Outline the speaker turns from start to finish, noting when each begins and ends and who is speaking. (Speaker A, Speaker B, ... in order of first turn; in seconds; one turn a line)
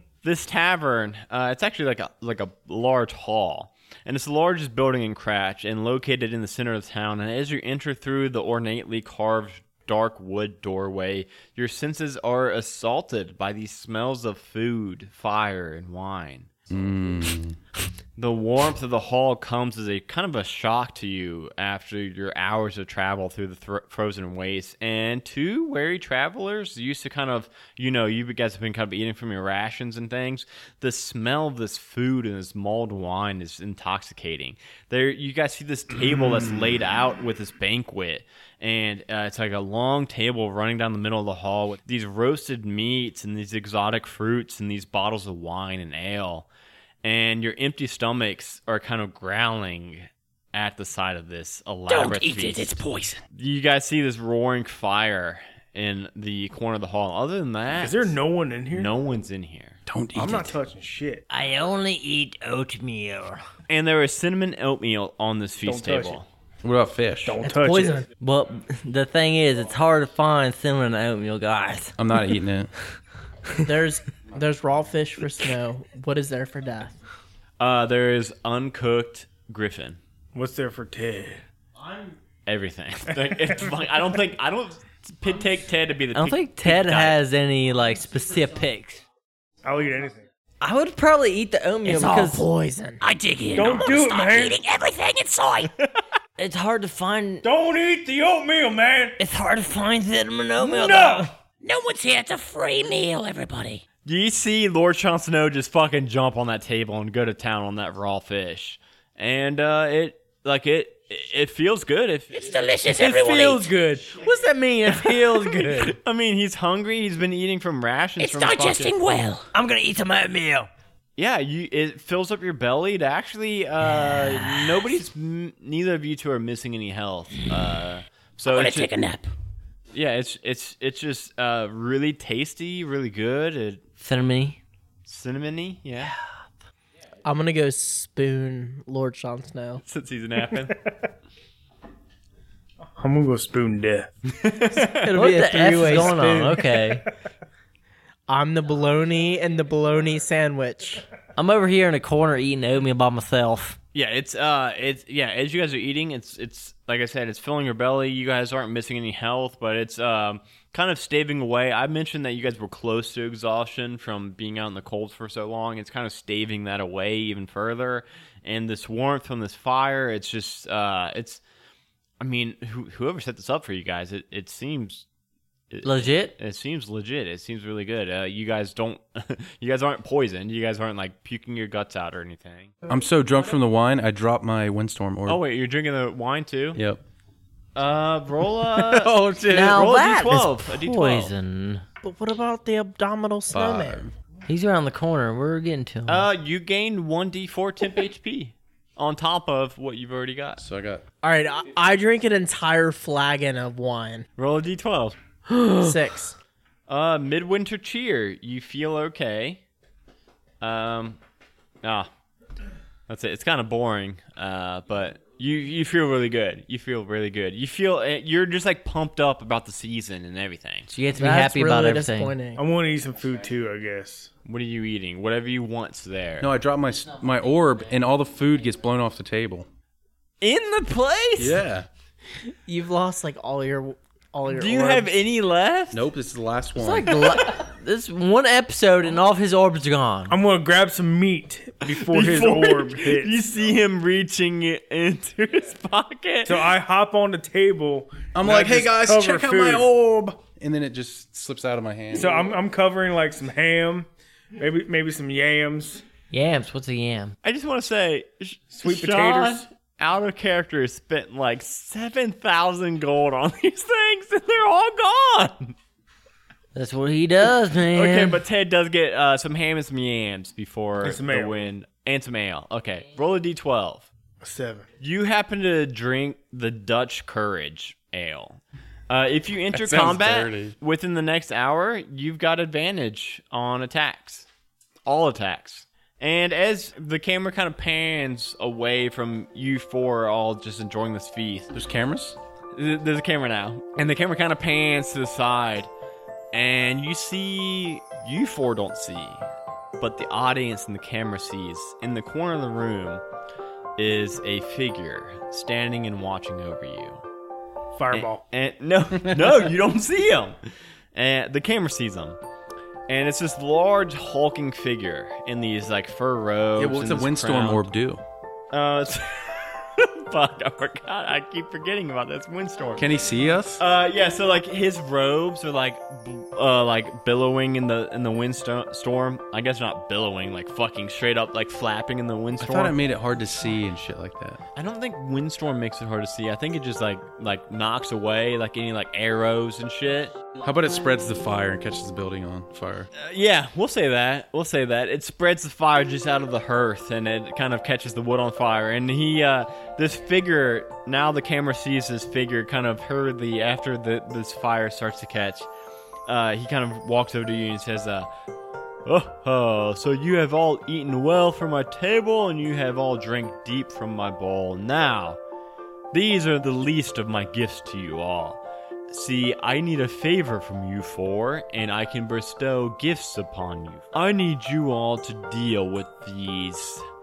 Speaker A: 0.2-16.5
Speaker B: 16.7-17.6
Speaker A: 18.2-46.5
Speaker A: 47.0-52.7
Speaker C: 51.9-53.2
Speaker A: 53.3-58.1
Speaker D: 57.8-58.9
Speaker A: 58.7-59.8
Speaker B: 59.9-60.5
Speaker D: 60.1-61.2
Speaker E: 61.3-63.4
Speaker A: 63.7-66.3
Speaker D: 65.6-66.2
Speaker B: 66.6-67.4
Speaker D: 67.2-68.0
Speaker F: 67.4-68.1
Speaker E: 68.2-71.9
Speaker B: 72.0-72.7
Speaker F: 73.6-77.0
Speaker A: 77.6-80.0
Speaker D: 80.3-81.4
Speaker A: 82.5-87.2
Speaker D: 83.1-83.8
Speaker E: 86.1-89.0
Speaker D: 89.6-90.2
Speaker E: 90.6-92.4
Speaker F: 91.8-93.0
Speaker C: 93.0-95.7
Speaker D: 93.5-94.6
Speaker E: 96.4-97.4
Speaker D: 97.4-99.2
Speaker E: 99.2-101.3
Speaker D: 100.6-101.3
Speaker C: 101.6-103.8
Speaker A: 104.0-112.5
Speaker C: 112.3-113.7
Speaker D: 113.1-114.0
Speaker E: 114.0-115.9
Speaker A: 114.9-118.9
Speaker C: 118.2-119.5
Speaker E: 119.5-120.7
Speaker A: 121.2-128.9
Speaker E: 124.0-124.7
Speaker C: 128.4-129.3
Speaker A: 129.9-133.8
Speaker E: 134.0-134.6
Speaker A: 135.1-136.1
Speaker F: 137.2-139.8
Speaker A: 139.8-140.8
Speaker D: 143.0-144.1
Speaker A: 144.3-145.1
Speaker F: 144.9-146.6
Speaker E: 145.1-147.1
Speaker D: 146.5-147.0
Speaker F: 148.3-151.0
Speaker E: 151.3-153.8
Speaker A: 153.9-171.4
Speaker A: 172.2-175.1
Speaker A: 175.7-182.7
Speaker E: 175.8-176.3
Speaker B: 182.9-185.4
Speaker A: 185.2-186.8
Speaker B: 186.7-187.0
Speaker A: 187.8-191.3
Speaker B: 188.7-189.8
Speaker E: 189.5-191.8
Speaker F: 192.0-194.0
Speaker B: 193.5-194.1
Speaker E: 194.5-196.3
Speaker A: 196.1-200.6
Speaker B: 200.6-201.0
Speaker F: 201.2-204.2
Speaker A: 204.4-205.2
Speaker E: 205.5-205.9
Speaker F: 205.7-206.3
Speaker A: 206.9-209.6
Speaker A: 210.6-211.2
Speaker A: 211.8-212.1
Speaker A: 213.1-220.9
Speaker E: 220.9-222.3
Speaker F: 221.2-222.6
Speaker D: 222.6-224.3
Speaker A: 224.4-226.5
Speaker B: 226.4-229.7
Speaker A: 230.4-231.6
Speaker B: 231.4-231.9
Speaker F: 232.7-235.2
Speaker A: 234.5-236.0
Speaker B: 235.9-237.3
Speaker E: 236.8-240.3
Speaker D: 240.3-243.4
Speaker A: 241.8-246.7
Speaker D: 246.4-249.9
Speaker B: 248.3-252.5
Speaker D: 252.1-256.0
Speaker E: 256.3-257.3
Speaker A: 257.4-265.7
Speaker D: 258.7-259.7
Speaker E: 266.7-268.4
Speaker A: 267.9-274.1
Speaker D: 271.0-271.6
Speaker D: 274.4-274.9
Speaker A: 275.0-284.5
Speaker B: 279.7-280.7
Speaker A: 285.1-291.7
Speaker B: 291.7-292.4
Speaker A: 292.7-295.9
Speaker A: 296.5-299.4
Speaker A: 300.0-303.2
Speaker A: 304.0-307.2
Speaker D: 307.9-308.4
Speaker A: 308.1-310.6
Speaker A: 311.1-312.4
Speaker A: 313.1-317.9
Speaker B: 316.8-318.2
Speaker A: 318.7-323.1
Speaker B: 323.0-323.8
Speaker A: 323.8-332.9
Speaker B: 332.6-334.6
Speaker A: 334.7-340.3
Speaker B: 340.6-343.1
Speaker A: 343.1-355.7
Speaker A: 356.3-358.3
Speaker A: 359.1-365.4
Speaker A: 366.1-377.0